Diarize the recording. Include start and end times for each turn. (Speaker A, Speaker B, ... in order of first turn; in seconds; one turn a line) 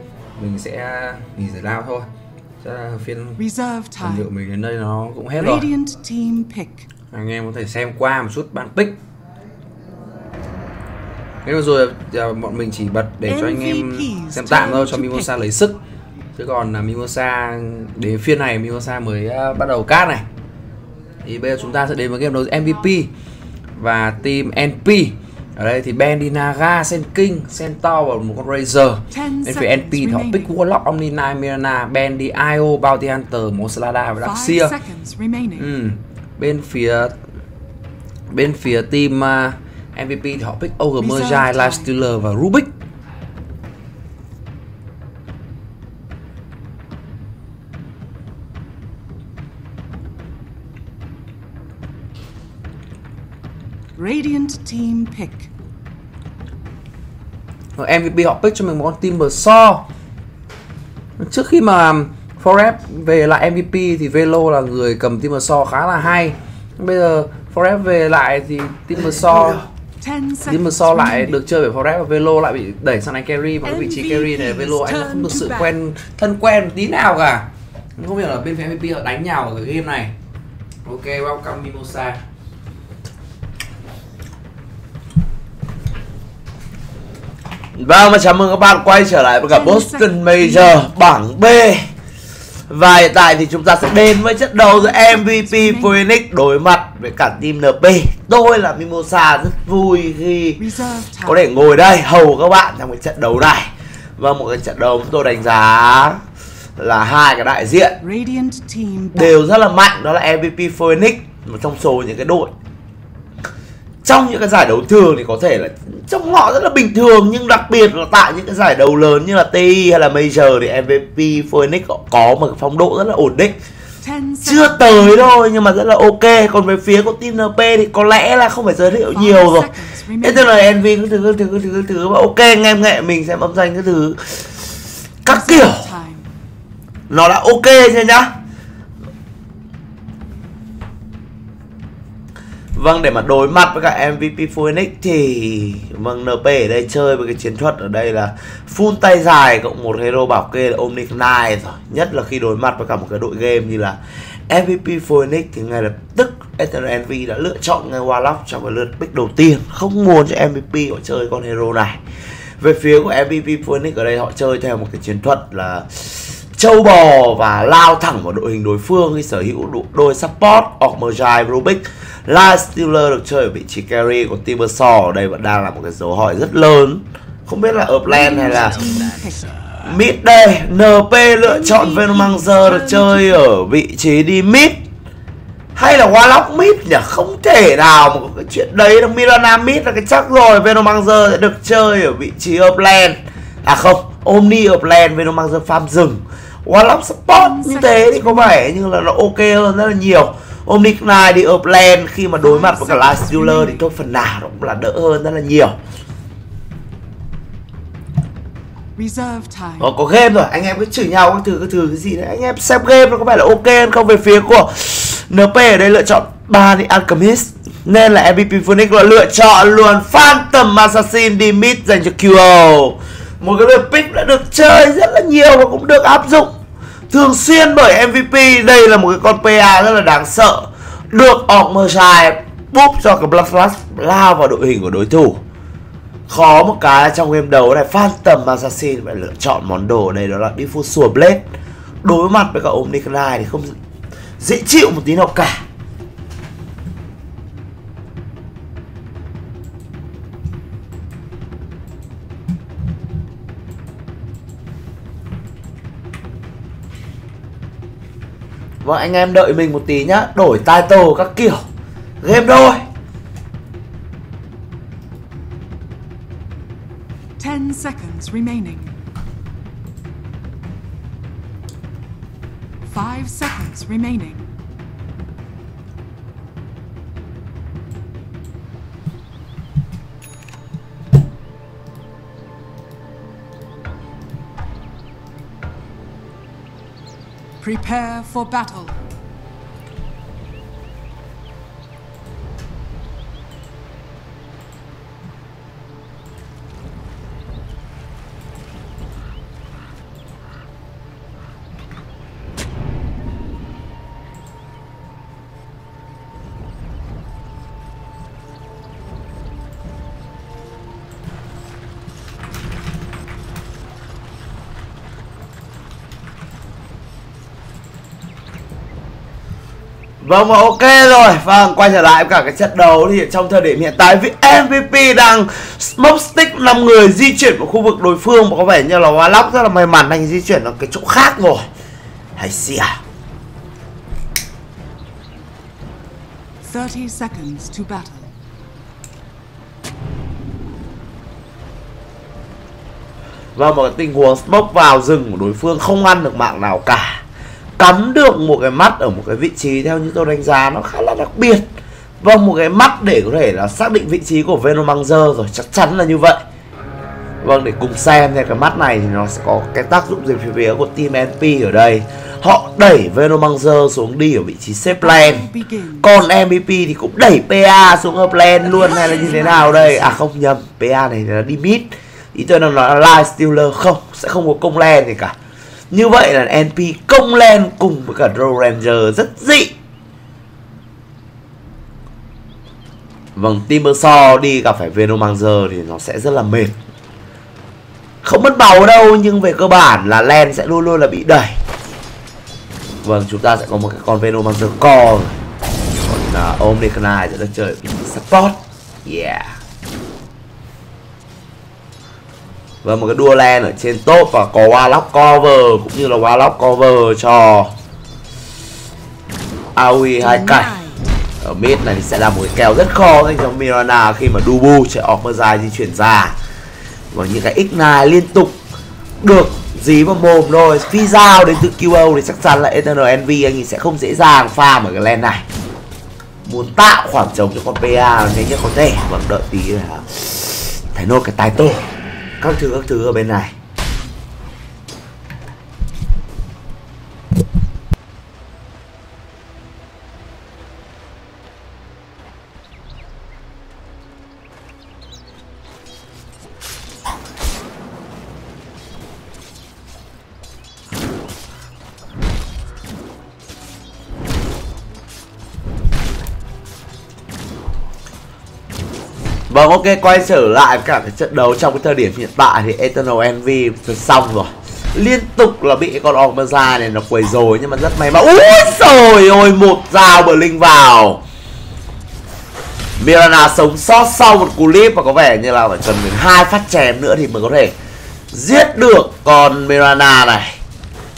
Speaker A: 0.4-2.1
Speaker A: 2.6-3.4
Speaker B: 3.4-4.3
Speaker A: 4.0-5.7
Speaker B: 5.4-6.9
Speaker A: 7.1-9.0
Speaker A: 11.4-15.8
Speaker B: 13.3-15.3
Speaker A: 16.4-20.3
Speaker A: 21.2-23.1
Speaker A: 23.8-34.7
Speaker B: 29.1-30.6
Speaker B: 34.2-35.7
Speaker A: 35.6-37.2
Speaker A: 38.3-42.8
Speaker B: 41.0-41.9
Speaker B: 54.0-55.5
Speaker A: 57.8-59.9
Speaker A: 61.2-69.6
Speaker C: 69.3-69.6
Speaker B: 70.0-71.5
Speaker A: 70.5-80.1
Speaker B: 73.6-75.8
Speaker A: 80.8-82.2
Speaker C: 87.8-91.9
Speaker B: 89.5-90.9
Speaker C: 92.7-100.6
Speaker B: 94.7-96.0
Speaker B: 100.6-101.4
Speaker C: 101.2-106.2
Speaker C: 106.8-108.0
Speaker B: 108.0-109.4
Speaker C: 109.2-112.5
Speaker C: 114.0-123.6
Speaker B: 124.0-125.3
Speaker C: 124.5-129.7
Speaker B: 129.1-130.5
Speaker C: 130.2-134.4
Speaker C: 135.2-135.9
Speaker B: 135.3-136.3
Speaker C: 137.1-138.3
Speaker C: 142.7-162.0
Speaker C: 162.6-178.8
Speaker B: 178.1-179.5
Speaker C: 179.8-184.8
Speaker B: 181.4-183.4
Speaker C: 185.8-205.8
Speaker B: 197.3-198.7
Speaker B: 202.4-203.8
Speaker B: 209.0-209.9
Speaker C: 209.8-226.5
Speaker C: 227.1-235.4
Speaker C: 236.3-241.5
Speaker C: 242.0-243.8
Speaker C: 244.4-245.6
Speaker C: 258.8-261.7
Speaker C: 262.2-262.8
Speaker B: 267.4-268.9
Speaker B: 272.9-274.5
Speaker B: 287.6-289.0
Speaker C: 320.2-331.6
Speaker C: 332.4-333.0
Speaker B: 336.6-338.3
Speaker C: 343.6-347.2
Speaker C: 347.8-351.7
Speaker C: 352.2-356.4
Speaker C: 357.4-365.5
Speaker B: 365.0-366.1
Speaker C: 366.0-375.4
Speaker B: 368.6-370.2
Speaker C: 375.9-379.7
Speaker C: 383.4-386.8
Speaker C: 388.2-391.6
Speaker C: 393.0-395.4
Speaker C: 396.0-399.6
Speaker C: 402.8-407.7
Speaker C: 409.8-410.7
Speaker B: 410.2-411.1
Speaker C: 411.4-416.4
Speaker C: 417.1-418.6
Speaker C: 419.2-425.4
Speaker C: 426.4-431.9
Speaker C: 432.4-433.5
Speaker C: 459.5-471.2
Speaker C: 473.0-477.7
Speaker C: 478.3-480.6